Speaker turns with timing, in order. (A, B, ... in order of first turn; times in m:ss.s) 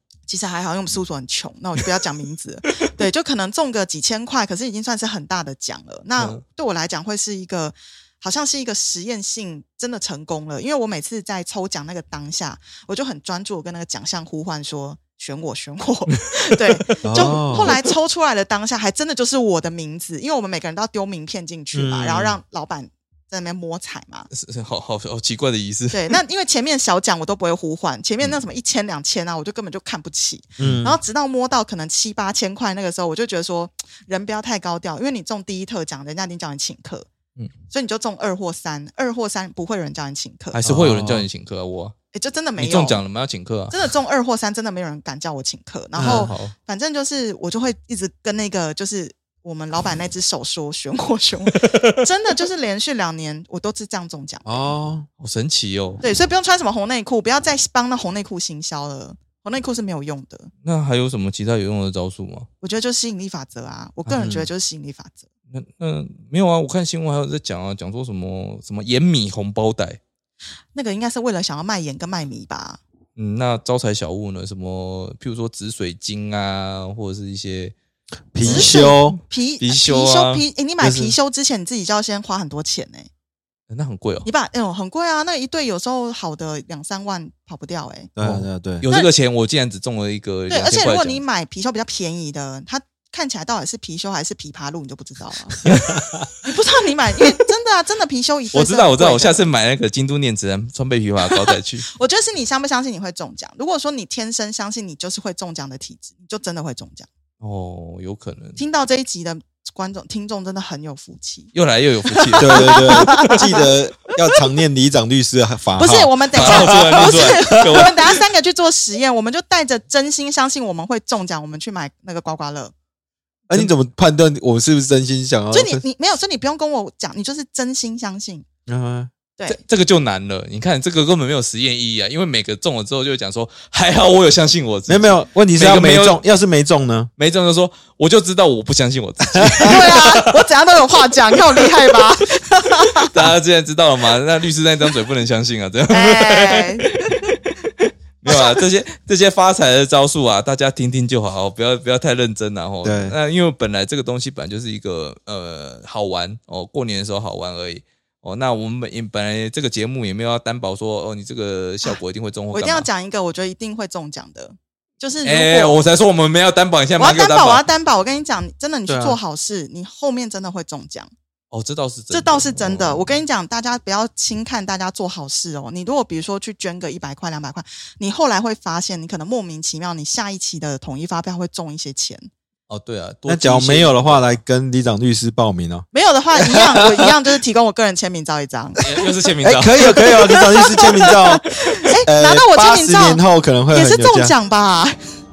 0:00.3-0:24.3 A
0:06.2-0:06.4 B
0:16.1-0:17.9 B
0:17.0-0:17.8 C
0:21.7-0:22.4 C
0:24.3-0:26.2 B
0:25.9-0:37.1 A
0:30.6-0:31.0 C
0:37.7-0:40.6 A
0:40.6-0:41.9 B
0:40.6-0:41.2 C
0:42.1-0:43.0 A
0:42.6-0:43.8 B
0:43.7-0:54.7 A
0:46.0-0:46.3 C
0:46.0-0:46.5 B
0:51.5-0:52.0 B
0:54.4-0:55.1 C
0:55.2-0:56.0 B
0:56.0-1:00.5 A
1:00.6-1:02.5 B
1:02.6-1:05.2 A
1:04.0-1:04.4 B
1:04.2-1:04.5 C
1:05.5-1:10.0 B
1:10.7-1:12.8 A
1:13.2-1:17.7 B
1:18.3-1:19.2 C
1:18.4-1:20.4 B
1:18.4-1:23.1 A
1:20.8-1:21.2 C
1:23.7-1:24.3 B
1:24.2-1:28.1 A
1:28.2-1:28.8 C
1:28.2-1:31.2 B
1:30.5-1:35.6 A
1:35.6-1:36.1 B
1:36.4-1:39.5 A
1:38.5-1:41.8 B
1:41.3-1:47.1 A
1:47.4-1:48.6 B
1:48.6-1:51.5 A
1:51.5-1:53.4 B
1:52.0-1:54.4 A
1:52.4-1:58.0 C
1:55.8-2:02.7 A
1:56.3-1:58.0 B
2:03.5-2:05.8 C
2:05.5-2:08.4 A
2:08.7-2:09.1 C
2:09.4-2:16.2 B
2:14.9-2:17.1 C
2:17.2-2:20.4 B
2:19.3-2:19.8 C
2:19.6-2:23.1 A
2:23.0-2:42.9 B
2:25.9-2:27.3 A
2:28.3-2:28.6 A
2:32.8-2:33.1 C
2:42.5-2:45.8 A
2:45.2-2:47.6 B
2:47.0-2:51.1 A
2:48.9-2:49.2 C
2:51.5-2:53.2 B
2:52.1-3:02.3 A
3:02.7-3:04.4 B
3:03.3-3:07.2 C
3:05.9-3:08.9 A
3:08.8-3:10.0 B
3:09.4-3:14.3 C
3:09.5-3:15.0 A